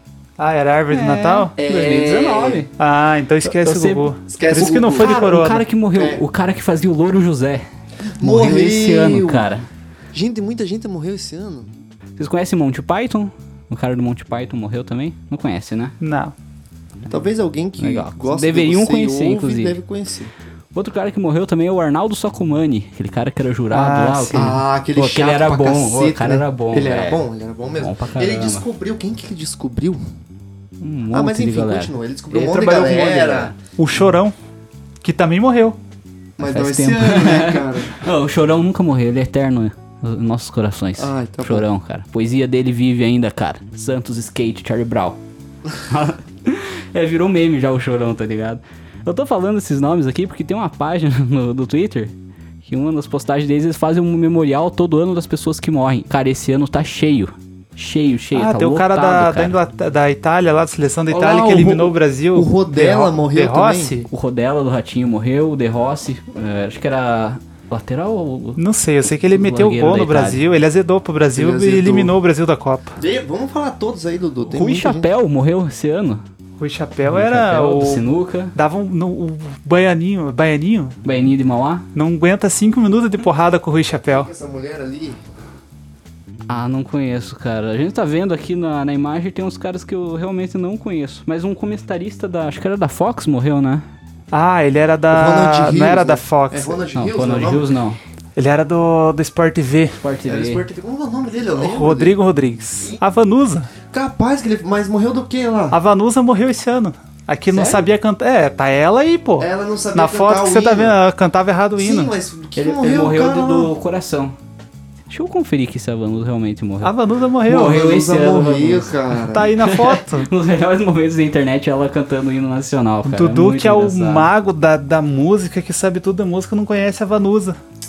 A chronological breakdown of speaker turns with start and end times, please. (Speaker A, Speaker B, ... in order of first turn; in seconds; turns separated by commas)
Speaker A: 0.4-2.0, Speaker B: 0.9-2.7, Speaker C: 1.6-2.6, Speaker A: 2.8-5.6, Speaker B: 3.4-7.6, Speaker C: 4.3-5.3, Speaker C: 5.9-6.2, Speaker C: 8.2-9.5, Speaker B: 8.2-9.7, Speaker C: 10.1-11.7, Speaker B: 12.2-15.9, Speaker A: 16.0-16.3, Speaker C: 17.1-20.3, Speaker B: 17.8-19.8, Speaker B: 20.7-27.2, Speaker A: 23.7-24.5, Speaker C: 24.3-30.0, Speaker B: 27.8-28.7, Speaker B: 30.8-33.6, Speaker C: 31.1-33.5, Speaker A: 33.8-34.3, Speaker A: 35.0-35.8, Speaker C: 36.4-38.0, Speaker B: 36.4-45.2, Speaker C: 41.0-41.7, Speaker B: 45.8-59.6, Speaker A: 58.3-64.1, Speaker C: 61.1-64.1, Speaker B: 64.1-68.6, Speaker A: 68.6-73.0, Speaker B: 69.3-70.4, Speaker C: 71.3-72.1, Speaker C: 73.0-75.1, Speaker B: 74.5-76.2, Speaker A: 76.6-81.0, Speaker B: 77.0-78.5, Speaker B: 81.0-81.8, Speaker A: 81.9-84.3, Speaker C: 84.1-85.2, Speaker B: 86.5-93.8, Speaker A: 94.3-96.8, Speaker C: 95.1-97.7, Speaker B: 96.9-98.0, Speaker A: 98.3-100.0, Speaker B: 100.0-100.6, Speaker C: 100.3-102.1, Speaker A: 101.5-103.7, Speaker C: 103.9-105.8, Speaker A: 105.7-112.1, Speaker B: 107.5-107.8, Speaker C: 109.4-111.0, Speaker C: 111.8-113.7, Speaker B: 112.5-114.3, Speaker B: 115.1-116.9, Speaker A: 116.8-117.8, Speaker B: 117.5-124.3, Speaker C: 117.5-119.5, Speaker A: 119.3-120.3, Speaker A: 123.0-127.6